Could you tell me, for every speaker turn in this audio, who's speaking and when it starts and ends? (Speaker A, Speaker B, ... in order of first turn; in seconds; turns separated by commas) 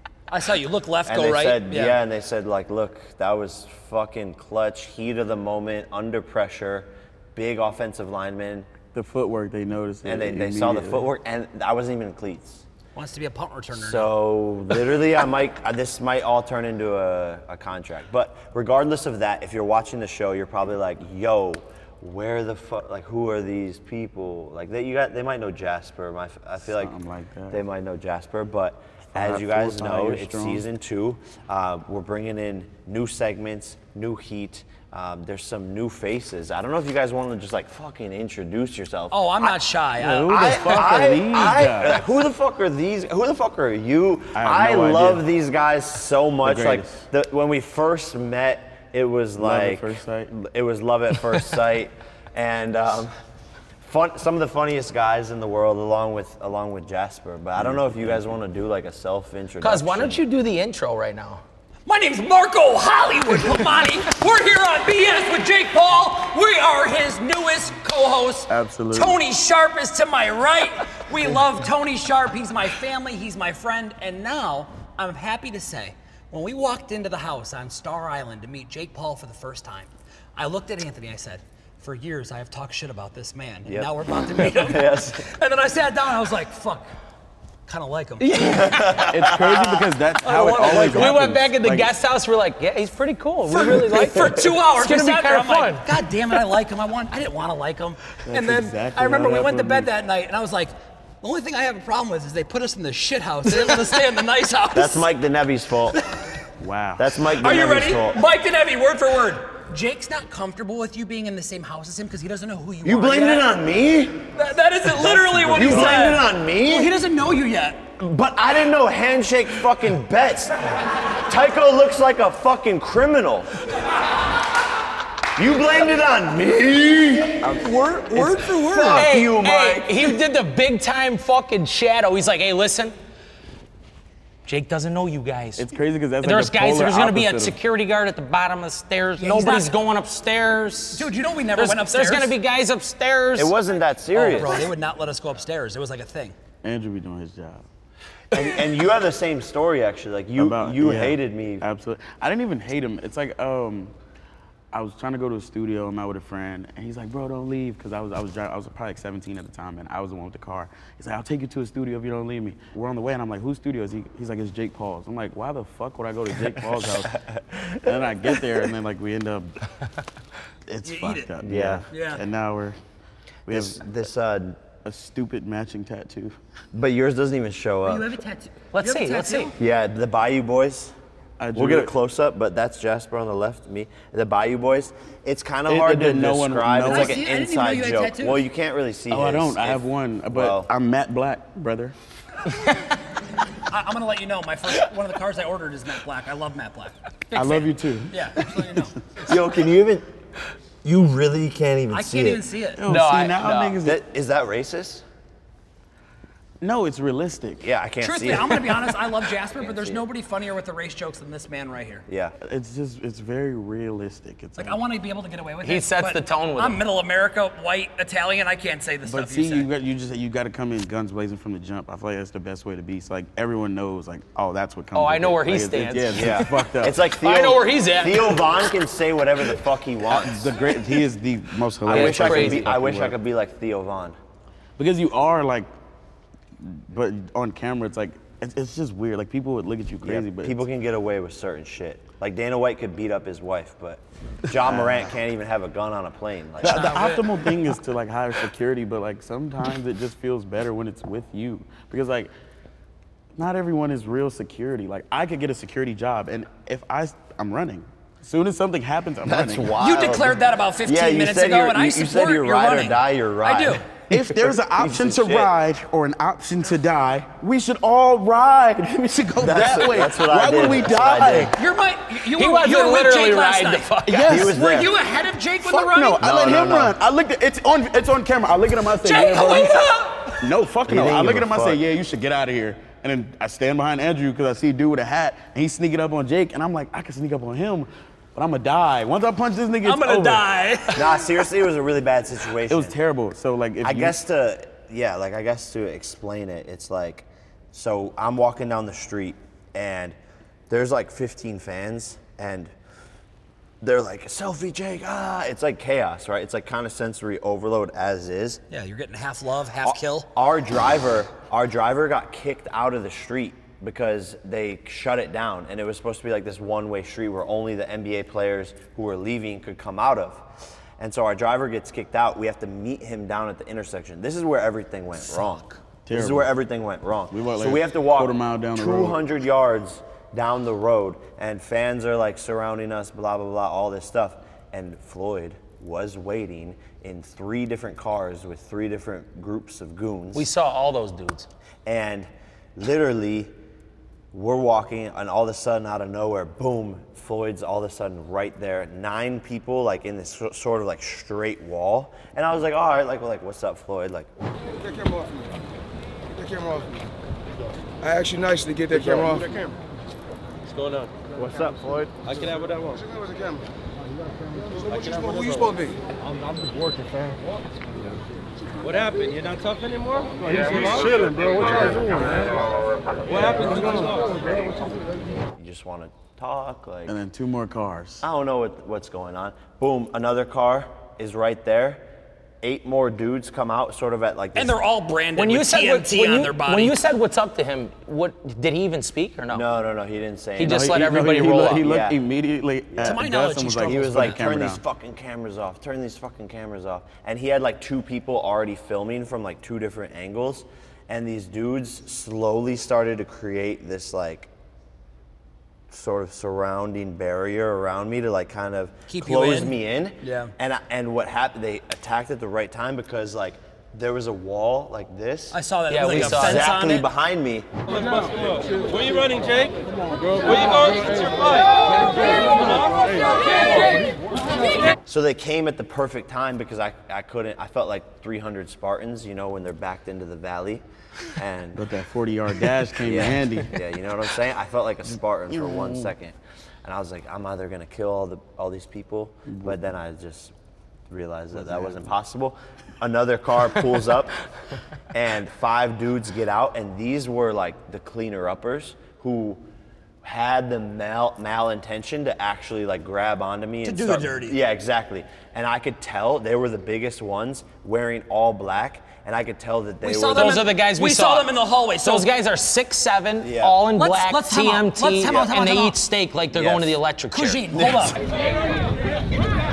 Speaker A: 0.3-2.0, Speaker B: 1.1-8.7, Speaker C: 8.9-11.1, Speaker B: 10.0-12.6, Speaker A: 12.9-14.1, Speaker B: 13.7-26.9, Speaker C: 26.6-27.6, Speaker B: 27.5-39.6, Speaker C: 29.1-30.6, Speaker A: 39.1-40.9, Speaker C: 40.0-42.0, Speaker B: 40.3-53.1, Speaker C: 44.4-45.3, Speaker C: 46.4-47.0, Speaker C: 49.4-50.3, Speaker B: 53.8-60.2, Speaker C: 57.5-58.3, Speaker D: 59.6-61.4, Speaker A: 61.9-86.9, Speaker C: 68.5-69.2, Speaker B: 83.6-85.2, Speaker A: 87.7-88.3, Speaker D: 88.2-89.2, Speaker B: 88.3-89.9, Speaker C: 89.0-91.9, Speaker A: 90.2-91.2, Speaker D: 90.5-95.8, Speaker A: 93.5-105.1, Speaker C: 98.2-99.9, Speaker B: 104.7-106.0, Speaker C: 106.6-107.2, Speaker B: 107.0-108.2, Speaker A: 107.4-113.5, Speaker B: 112.8-114.2, Speaker A: 114.4-117.8, Speaker B: 115.0-116.9, Speaker C: 115.3-116.2, Speaker B: 118.0-120.6, Speaker B: 121.2-123.5, Speaker B: 125.4-127.5, Speaker C: 127.4-129.0, Speaker B: 128.1-130.2, Speaker D: 128.8-132.9, Speaker D: 134.4-135.7, Speaker C: 135.6-137.6, Speaker D: 136.2-143.5, Speaker A: 139.2-139.7, Speaker A: 140.9-142.3, Speaker B: 143.4-144.7, Speaker A: 144.1-146.3, Speaker C: 146.6-147.6, Speaker B: 148.3-151.6, Speaker C: 150.4-153.9, Speaker C: 154.7-167.2, Speaker B: 167.4-168.3, Speaker C: 167.8-169.5, Speaker C: 170.7-172.8, Speaker A: 170.8-171.3, Speaker B: 171.4-171.9, Speaker A: 171.9-172.2, Speaker C: 173.4-173.8, Speaker B: 173.5-174.6, Speaker C: 174.8-176.4, Speaker B: 176.7-178.1, Speaker A: 177.9-179.5, Speaker D: 178.7-179.5, Speaker B: 179.6-180.9, Speaker C: 181.4-181.9, Speaker B: 181.5-190.7, Speaker C: 185.7-187.2, Speaker A: 186.8-188.4, Speaker C: 189.1-191.9, Speaker A: 193.7-198.9, Speaker C: 197.3-198.8, Speaker B: 199.3-200.1, Speaker B: 200.8-202.4, Speaker A: 201.9-202.8, Speaker C: 202.8-204.0, Speaker D: 202.9-203.8, Speaker B: 203.8-205.0, Speaker C: 206.6-207.6, Speaker B: 207.6-209.0, Speaker A: 208.0-212.0, Speaker B: 209.5-210.0, Speaker B: 212.1-212.3, Speaker C: 212.4-214.8, Speaker A: 214.6-219.7, Speaker D: 215.6-216.8, Speaker C: 219.0-227.0, Speaker D: 224.9-226.5, Speaker B: 226.1-230.5, Speaker D: 227.1-228.7, Speaker C: 230.1-233.2, Speaker B: 231.9-234.2, Speaker D: 231.9-232.8, Speaker C: 234.8-235.7, Speaker C: 236.6-240.6, Speaker B: 240.0-247.0, Speaker C: 244.5-245.1, Speaker C: 246.6-252.3, Speaker A: 246.7-247.2, Speaker C: 253.4-259.7, Speaker B: 259.2-265.5, Speaker A: 259.8-263.9, Speaker C: 264.1-271.5, Speaker B: 269.4-271.5, Speaker A: 271.5-276.2, Speaker D: 272.4-274.4, Speaker C: 274.1-274.6, Speaker B: 274.2-274.9, Speaker C: 275.6-290.4, Speaker B: 276.2-276.9, Speaker A: 279.0-280.4, Speaker B: 280.9-281.8, Speaker A: 289.8-291.2, Speaker B: 290.9-292.9, Speaker C: 292.7-294.2, Speaker B: 293.8-300.2, Speaker B: 300.7-302.7, Speaker B: 303.8-308.6, Speaker A: 308.7-310.3, Speaker B: 309.9-320.4, Speaker B: 321.0-340.5, Speaker C: 326.1-326.5, Speaker C: 327.3-329.2, Speaker D: 340.3-341.5, Speaker B: 341.9-343.5, Speaker B: 344.3-354.3, Speaker E: 354.8-355.5, Speaker E: 356.3-357.0, Speaker E: 358.0-359.7, Speaker F: 360.7-361.1, Speaker F: 362.2-363.0, Speaker E: 362.9-363.6, Speaker E: 364.8-366.0, Speaker F: 364.9-365.6, Speaker F: 368.8-371.9, Speaker F: 373.3-374.4, Speaker B: 375.6-377.1, Speaker C: 377.1-378.2, Speaker B: 378.2-382.0, Speaker B: 382.6-384.8, Speaker A: 384.6-386.9, Speaker D: 385.4-389.6, Speaker B: 389.5-391.0, Speaker D: 390.6-391.9, Speaker C: 390.6-394.8, Speaker B: 391.6-392.1, Speaker B: 392.9-393.2, Speaker A: 393.0-394.4, Speaker B: 393.8-404.5, Speaker B: 405.9-415.5, Speaker A: 409.1-410.5, Speaker A: 415.5-417.1, Speaker D: 415.9-416.8, Speaker B: 416.1-417.7, Speaker F: 417.9-423.8, Speaker B: 425.1-431.9, Speaker C: 431.8-433.8, Speaker B: 433.0-440.5, Speaker C: 435.5-436.1, Speaker C: 439.5-439.8, Speaker B: 441.1-444.4, Speaker C: 441.5-442.1, Speaker B: 445.1-449.6, Speaker B: 450.2-460.6, Speaker A: 453.8-454.6, Speaker A: 460.0-462.3, Speaker D: 460.3-467.9, Speaker B: 463.4-463.8, Speaker A: 463.9-466.0, Speaker B: 466.5-467.0, Speaker A: 467.3-468.2